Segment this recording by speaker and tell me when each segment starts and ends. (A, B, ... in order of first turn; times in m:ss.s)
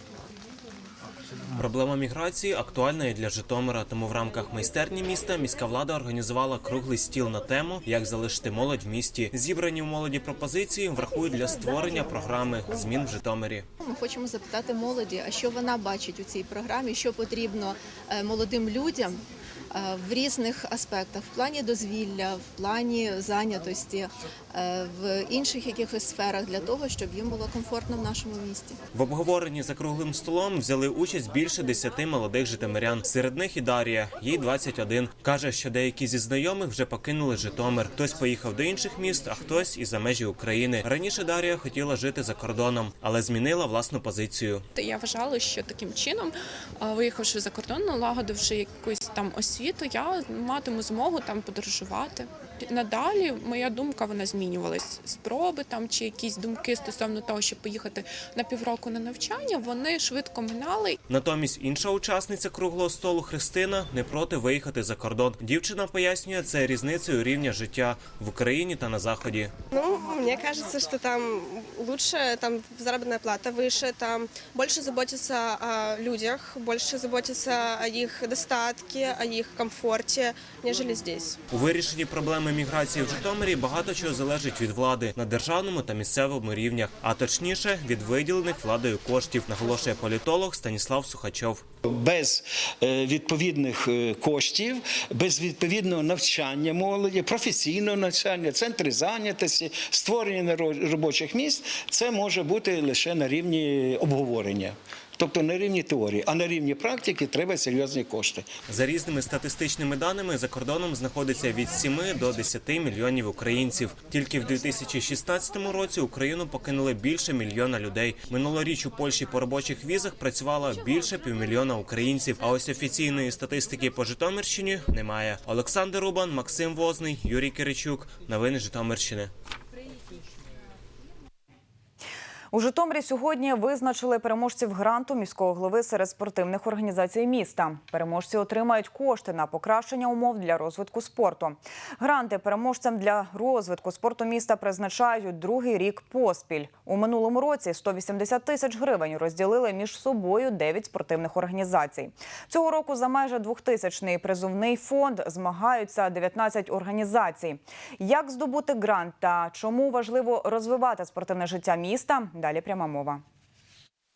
0:01.6-0:13.6 A
0:13.8-0:28.8 B
0:28.9-0:44.6 A
0:44.7-1:01.0 C
1:01.1-1:09.5 A
1:09.8-1:21.4 D
1:21.5-1:31.6 A
1:31.8-1:48.5 E
1:48.7-2:09.3 A
2:12.5-2:43.2 F